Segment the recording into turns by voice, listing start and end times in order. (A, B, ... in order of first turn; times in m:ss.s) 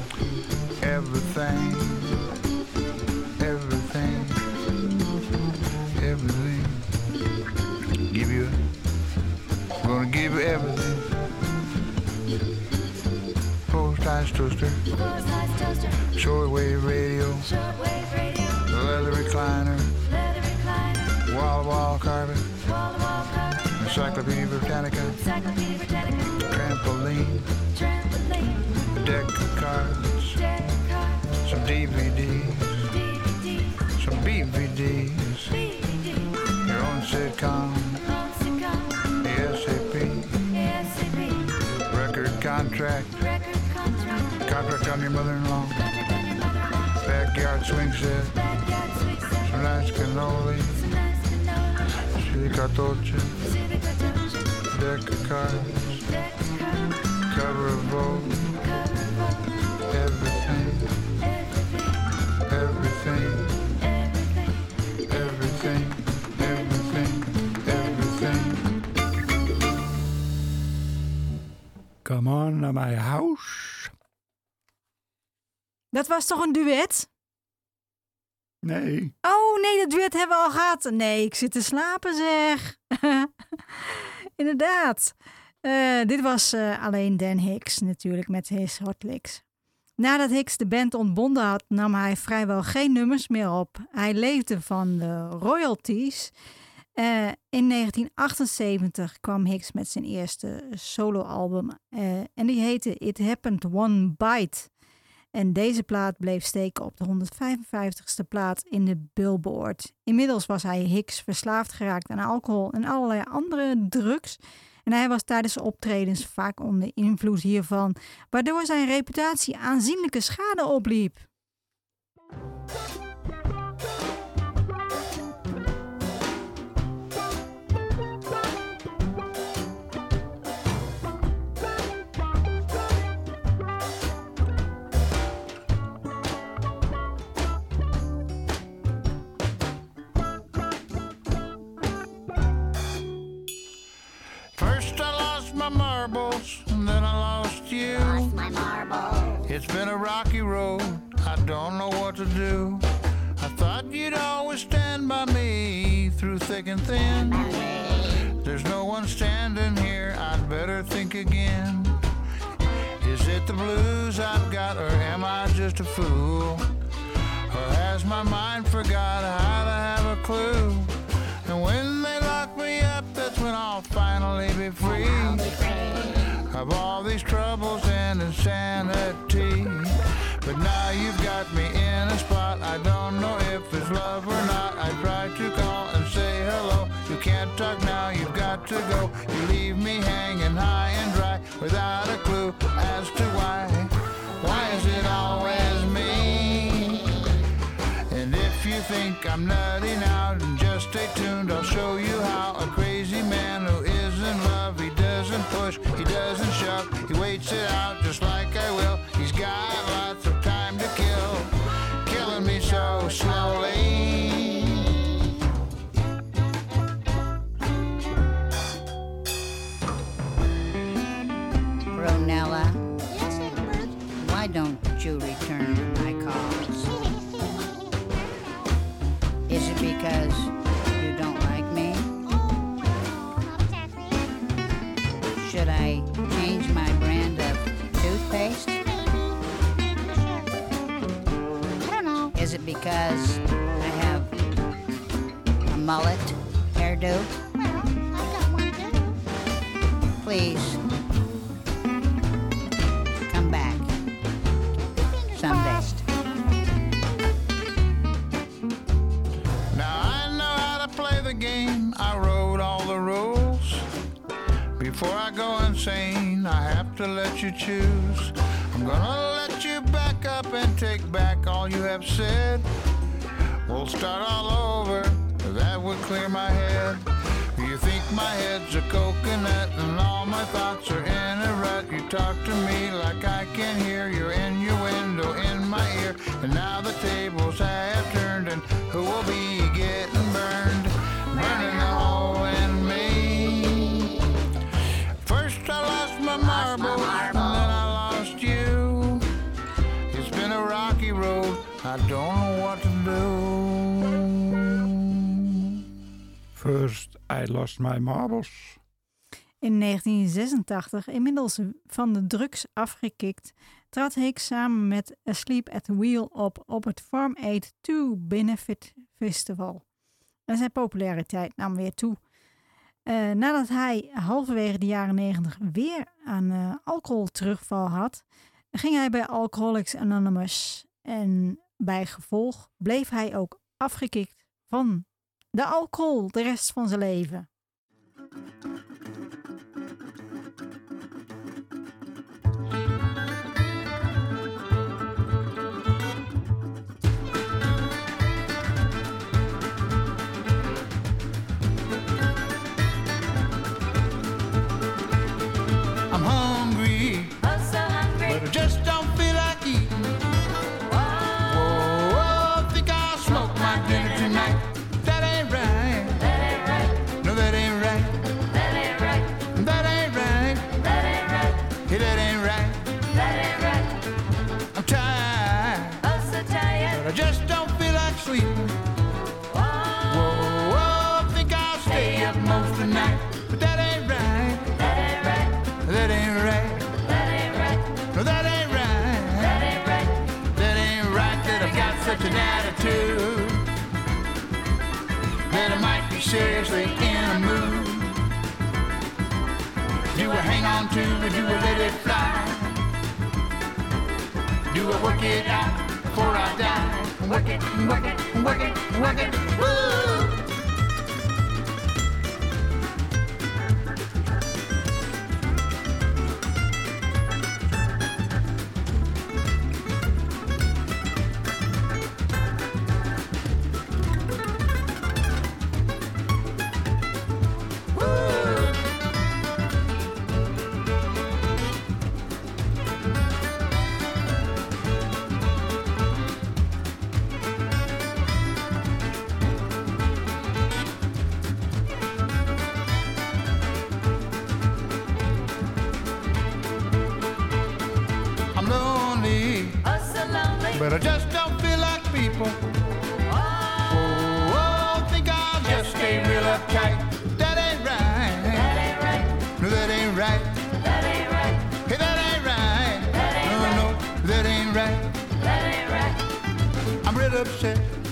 0:00.8-0:02.2 A
0:03.4-0:04.4 A
0:05.9-0:06.8 A
0:08.1-0:08.6 A
0:09.8-0:11.2 A
0:13.6-0:14.8 A
0:14.9-0:16.1 B
0:16.1-0:17.5 A
0:17.4-0:18.6 B
0:18.6-0:20.0 A
0:20.1-0:21.2 B
0:21.3-0:22.5 A
0:22.6-0:23.7 B
0:23.7-0:25.2 A
0:25.2-0:26.4 B
0:26.4-0:27.6 A
0:27.7-0:28.8 B
0:28.8-0:30.4 A
0:30.4-0:31.3 B
0:31.3-0:32.9 A
0:33.0-0:33.8 B
0:33.9-0:35.6 A
0:35.5-0:36.4 B
0:36.6-0:38.0 A
0:38.1-0:39.0 B
0:39.2-0:40.4 A
0:40.5-0:41.6 B
0:41.8-0:43.2 A
0:43.2-0:44.4 B
0:44.4-0:45.8 A
0:45.9-0:46.9 B
0:47.0-0:48.4 A
0:48.4-0:49.4 B
0:49.4-0:50.9 A
0:50.8-0:51.9 B
0:52.0-0:53.4 A
0:53.4-0:54.6 B
0:54.6-0:56.0 A
0:56.1-0:57.1 B
0:57.2-0:58.5 A
0:58.6-0:59.6 B
0:59.9-1:01.0 A
1:01.2-1:02.1 B
1:02.5-1:03.6 A
1:03.8-1:04.7 B
1:05.1-1:08.6 A
1:12.0-1:13.9 C
1:15.9-1:17.1 D
1:18.6-1:19.1 C
1:19.2-1:23.3 D
1:23.9-1:29.4 D
1:30.0-1:36.3 D
1:37.0-1:44.7 D
1:45.3-2:01.3 D
2:24.6-2:28.4 A
2:28.2-2:29.4 E
2:29.4-2:37.5 A
2:37.6-2:38.0 E
2:38.2-2:42.0 A
2:43.0-2:46.7 A
2:47.5-2:55.6 A
2:55.5-2:56.1 E
2:56.3-3:17.2 A
3:18.1-3:35.0 A
3:41.9-3:47.1 E
3:49.5-3:52.3 E
3:55.3-3:59.1 E
4:02.2-4:04.4 E
4:05.7-4:07.4 E
4:08.4-4:08.8 E
4:10.2-4:10.8 E
4:13.3-4:13.9 E
4:15.2-4:16.0 E
4:19.7-4:23.9 A
4:24.8-4:32.7 A
4:33.6-4:54.2 A
4:55.2-4:59.3 A
5:00.1-5:05.8 A
5:06.5-5:08.8 C
5:09.6-5:19.8 D
5:20.5-5:22.2 D
5:23.1-5:37.5 D
5:56.1-5:57.4 A
5:57.4-5:58.4 B
5:58.2-6:00.1 A
6:00.9-6:01.4 B
6:01.4-6:06.4 A
6:06.4-6:07.0 B
6:07.0-6:08.4 A
6:08.6-6:09.3 B
6:09.4-6:10.8 A
6:11.0-6:11.6 B
6:11.7-6:13.1 A
6:13.3-6:14.0 B
6:14.7-6:16.1 A
6:16.1-6:17.0 B
6:16.9-6:18.8 A
6:19.5-6:20.4 B
6:20.1-6:24.8 A
6:24.9-6:25.5 B
6:25.7-6:27.1 A
6:28.0-6:33.7 A
6:35.5-6:38.2 A
6:40.1-6:42.8 A
6:44.7-6:50.3 A
7:08.2-7:08.6 A
7:28.5-7:29.8 A
7:29.9-7:30.8 B
7:30.7-7:32.6 A
7:33.4-7:33.8 B
7:33.8-7:40.8 A
7:41.7-7:45.4 A
7:45.5-7:46.2 B
7:47.0-7:48.0 A